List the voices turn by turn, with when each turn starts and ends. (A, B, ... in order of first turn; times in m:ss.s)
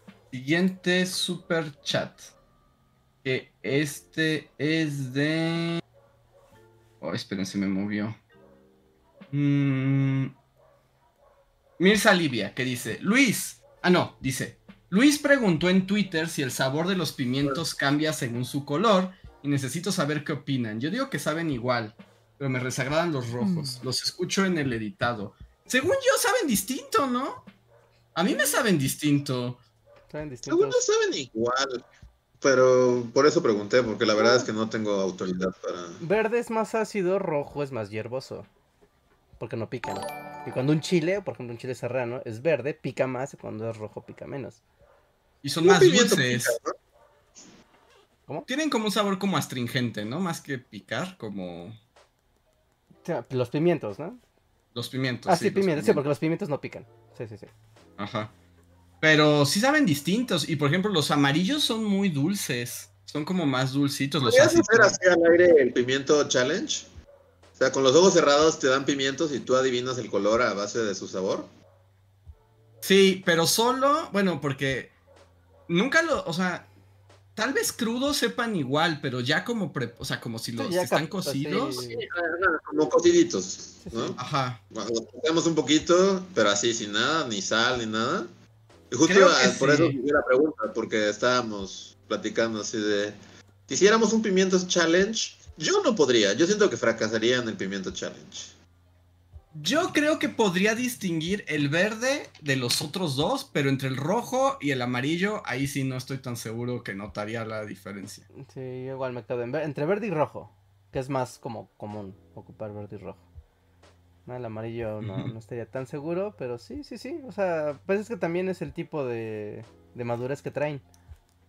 0:00.3-0:02.3 A
0:03.2-0:05.8 A
0:07.0-0:08.2 A
0:09.3-0:10.3 A
0:11.8-0:27.4 A
0:28.2-0:29.6 A
0:30.1-0:30.8 B
0:30.5-0:31.8 C
0:32.4-0:36.0 C
0:34.2-0:34.5 B
0:36.0-0:38.5 B
0:39.4-0:44.6 B
0:45.4-0:46.6 A
0:45.6-0:46.8 C
0:48.5-0:51.8 A
0:53.0-0:54.2 B
0:54.7-0:56.0 A
0:55.3-0:57.5 B
0:58.0-0:58.3 A
0:59.0-1:05.0 A
1:04.2-1:06.9 C
1:07.6-1:11.5 C
1:12.8-1:14.9 A
1:15.7-1:16.7 A
1:17.4-1:21.8 A
1:20.6-1:22.0 B
1:21.8-1:24.2 C
1:23.8-1:24.2 B
1:24.2-1:24.6 A
1:24.7-1:28.3 C
1:28.9-1:33.2 C
1:29.1-1:30.0 A
1:33.7-1:38.5 C
1:39.5-1:48.2 A
1:48.4-1:53.2 B
1:54.3-2:00.8 B
1:55.0-1:55.3 A